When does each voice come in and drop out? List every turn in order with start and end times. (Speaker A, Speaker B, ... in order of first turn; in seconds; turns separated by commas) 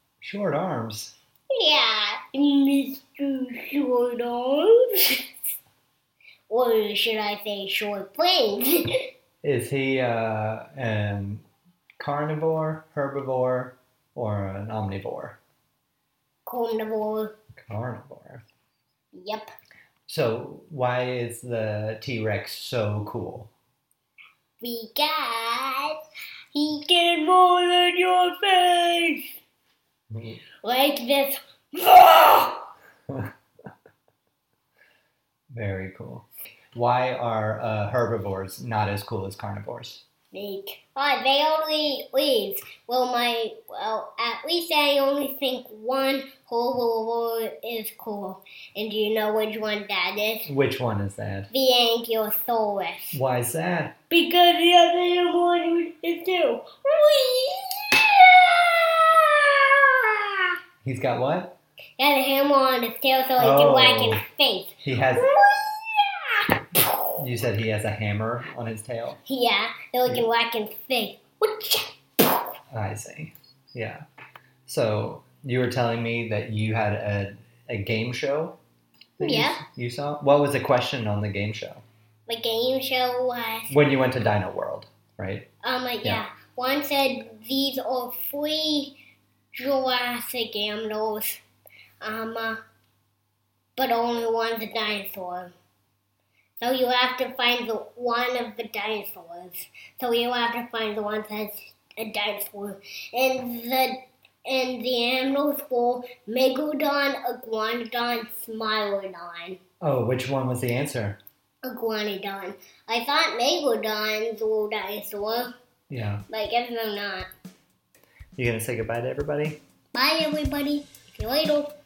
Speaker A: 0.2-1.1, Speaker B: 1.5-5.2, Speaker B: 6.5-8.8, Speaker A: 9.4-11.5, Speaker A: 12.0-15.4, Speaker B: 16.5-17.3, Speaker A: 17.6-18.4, Speaker B: 19.1-19.5, Speaker A: 20.1-23.5, Speaker B: 24.6-25.9, Speaker B: 26.5-29.3, Speaker A: 30.1-30.4, Speaker B: 30.6-32.7, Speaker A: 35.5-40.0, Speaker B: 40.3-50.5, Speaker A: 50.5-51.5, Speaker B: 51.5-53.2, Speaker A: 53.1-53.9, Speaker B: 54.1-60.3, Speaker A: 60.8-61.6, Speaker B: 62.0-66.3, Speaker A: 63.4-64.2, Speaker A: 64.8-65.3, Speaker A: 67.2-69.2, Speaker B: 69.2-72.0, Speaker A: 72.7-74.0, Speaker A: 74.7-78.6, Speaker A: 79.2-81.8, Speaker B: 79.2-79.6, Speaker B: 82.3-83.8, Speaker A: 83.7-85.5, Speaker B: 85.6-89.0, Speaker B: 89.5-91.4, Speaker B: 92.0-92.6, Speaker B: 93.8-95.5, Speaker B: 96.6-109.6, Speaker A: 109.8-111.2, Speaker B: 111.7-115.5, Speaker A: 115.9-116.2, Speaker B: 116.3-117.3, Speaker A: 118.4-119.6, Speaker B: 119.9-121.7